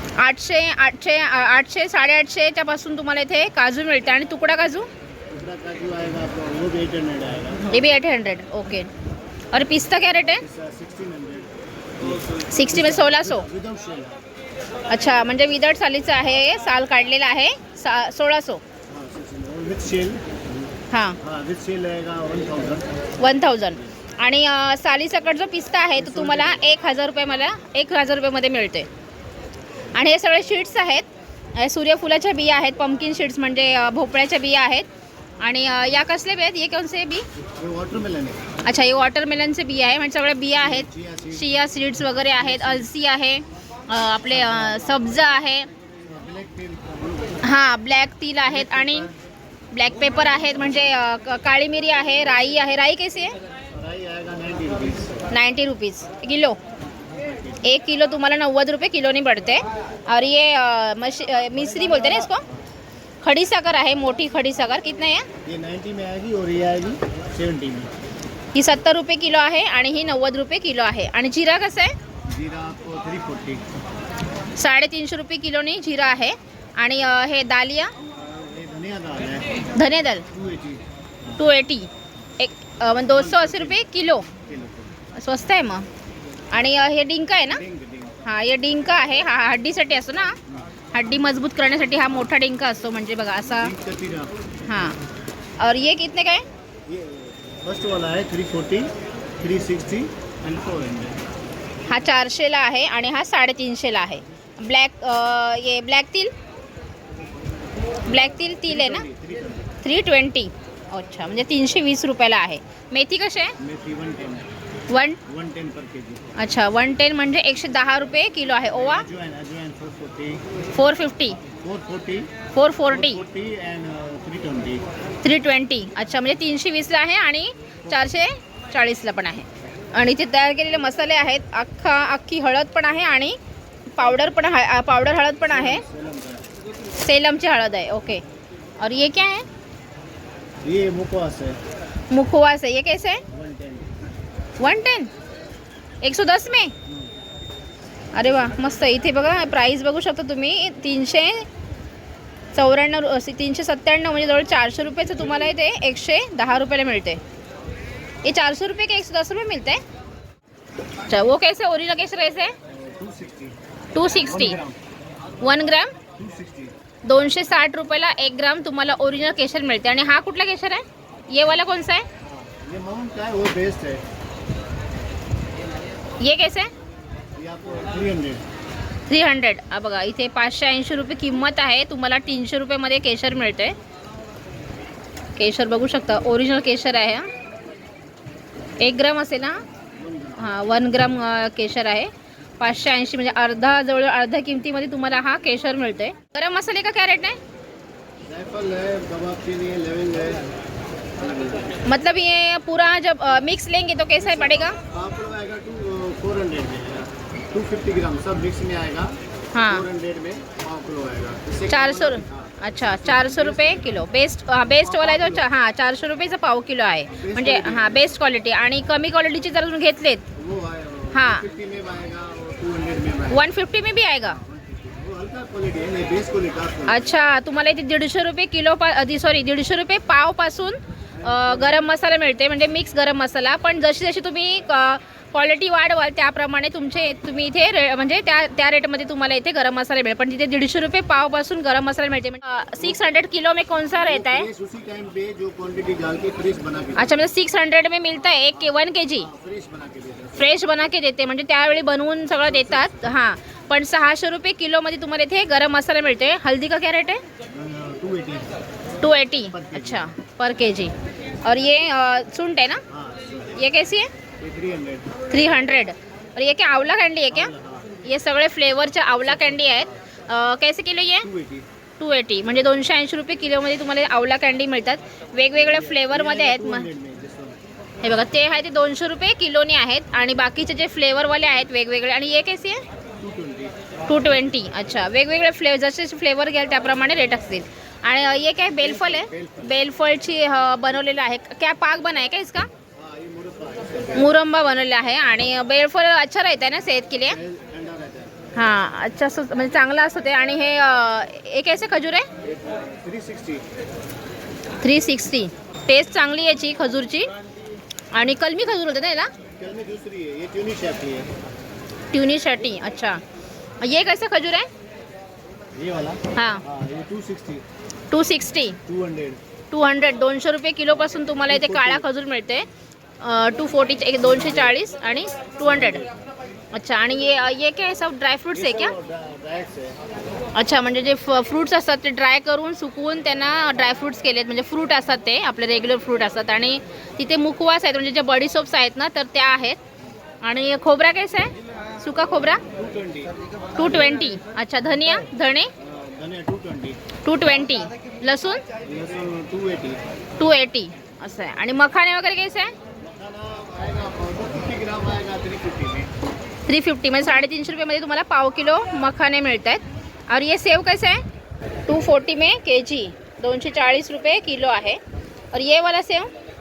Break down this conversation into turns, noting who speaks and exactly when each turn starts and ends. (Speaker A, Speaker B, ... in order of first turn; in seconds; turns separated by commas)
Speaker A: 0.2-4.9, Speaker B: 5.3-7.7, Speaker A: 7.7-8.9, Speaker A: 9.5-10.4, Speaker B: 10.4-14.2, Speaker A: 12.5-13.5, Speaker A: 14.9-18.6, Speaker B: 18.9-20.7, Speaker A: 20.9-21.2, Speaker B: 21.2-22.9, Speaker A: 23.2-28.9, Speaker B: 26.0-26.7, Speaker A: 29.9-34.9, Speaker A: 35.4-37.2, Speaker B: 37.4-38.5, Speaker A: 38.6-45.7, Speaker B: 40.5-41.5, Speaker B: 46.0-47.4, Speaker A: 47.4-49.1, Speaker A: 49.7-53.3, Speaker B: 53.7-55.3, Speaker A: 55.3-56.6, Speaker B: 57.1-57.6, Speaker A: 57.6-62.4, Speaker A: 63.2-65.3, Speaker B: 65.4-67.9, Speaker A: 68.5-72.0, Speaker B: 72.2-73.7, Speaker A: 74.5-77.9, Speaker B: 78.0-79.7, Speaker A: 79.7-80.2, Speaker B: 80.3-81.4, Speaker A: 81.4-84.3, Speaker B: 83.0-83.8, Speaker B: 84.3-84.9, Speaker A: 85.1-85.9, Speaker A: 86.5-87.6, Speaker B: 87.5-88.2, Speaker A: 88.2-90.4, Speaker A: 90.9-93.7, Speaker B: 93.5-94.4, Speaker A: 94.7-95.0, Speaker A: 95.6-96.4, Speaker B: 96.8-101.2, Speaker A: 101.9-106.3, Speaker A: 108.0-109.0, Speaker B: 108.7-109.8, Speaker A: 109.8-113.5, Speaker B: 113.6-114.5, Speaker A: 114.9-115.2, Speaker B: 115.2-116.3, Speaker A: 116.3-119.0, Speaker B: 118.8-120.5, Speaker A: 120.7-121.4, Speaker B: 121.5-122.3, Speaker A: 122.5-123.2, Speaker B: 122.9-124.8, Speaker A: 125.2-133.4, Speaker A: 133.9-135.8, Speaker B: 135.6-136.5, Speaker A: 136.9-138.2, Speaker A: 138.8-139.4, Speaker B: 140.6-141.6, Speaker A: 142.1-143.2, Speaker B: 143.3-144.0, Speaker A: 144.6-145.1, Speaker A: 146.0-146.7, Speaker B: 146.9-147.1, Speaker A: 148.1-151.5, Speaker A: 152.5-157.2, Speaker A: 158.2-159.8, Speaker A: 161.0-162.5, Speaker B: 162.7-163.6, Speaker A: 163.9-164.6, Speaker B: 164.2-164.8, Speaker A: 165.4-166.0, Speaker B: 166.1-166.7, Speaker A: 167.0-172.1, Speaker B: 172.2-174.0, Speaker A: 176.2-176.7, Speaker B: 177.4-178.4, Speaker A: 179.1-183.8, Speaker A: 185.3-187.3, Speaker A: 188.8-189.6, Speaker B: 189.9-190.6, Speaker A: 190.4-197.4, Speaker B: 198.2-200.5, Speaker B: 201.2-201.8, Speaker A: 201.8-204.8, Speaker B: 204.1-214.0, Speaker A: 209.5-209.8, Speaker A: 211.7-220.2, Speaker B: 214.7-215.5, Speaker B: 217.1-218.1, Speaker B: 220.3-223.5, Speaker A: 221.1-221.4, Speaker A: 223.3-224.4, Speaker B: 224.2-227.1, Speaker A: 226.9-244.5, Speaker B: 231.2-231.8, Speaker B: 244.0-247.2, Speaker A: 247.0-249.3, Speaker B: 249.1-250.5, Speaker A: 250.3-257.2, Speaker B: 257.5-258.6, Speaker A: 259.0-262.8, Speaker B: 259.5-260.1, Speaker B: 262.9-263.6, Speaker A: 263.5-264.1, Speaker B: 264.4-265.2, Speaker A: 265.2-267.5, Speaker B: 267.3-268.0, Speaker A: 268.0-271.3, Speaker B: 271.2-271.7, Speaker A: 272.0-276.9, Speaker B: 275.6-277.6, Speaker A: 278.0-282.8, Speaker B: 283.2-283.8, Speaker A: 284.1-292.7, Speaker B: 288.8-289.8, Speaker B: 292.9-294.3, Speaker A: 294.1-297.4, Speaker B: 297.3-298.3, Speaker A: 298.6-302.3, Speaker B: 302.4-303.6, Speaker A: 304.8-307.3, Speaker A: 308.1-309.3, Speaker B: 309.6-311.3, Speaker A: 312.1-313.2, Speaker A: 313.8-314.7, Speaker B: 315.7-317.6, Speaker A: 316.3-316.6, Speaker A: 318.1-318.8, Speaker B: 318.8-319.4, Speaker A: 319.7-322.7, Speaker B: 321.5-322.0, Speaker A: 323.2-326.1, Speaker A: 326.7-328.9, Speaker B: 328.5-330.0, Speaker A: 330.5-339.8, Speaker A: 340.4-342.6, Speaker B: 342.7-343.4, Speaker A: 343.8-345.7, Speaker B: 345.8-347.0, Speaker A: 347.2-348.6, Speaker B: 348.8-350.0, Speaker A: 350.4-352.7, Speaker B: 353.0-356.1, Speaker A: 356.6-361.2, Speaker A: 361.9-365.0, Speaker A: 365.5-366.3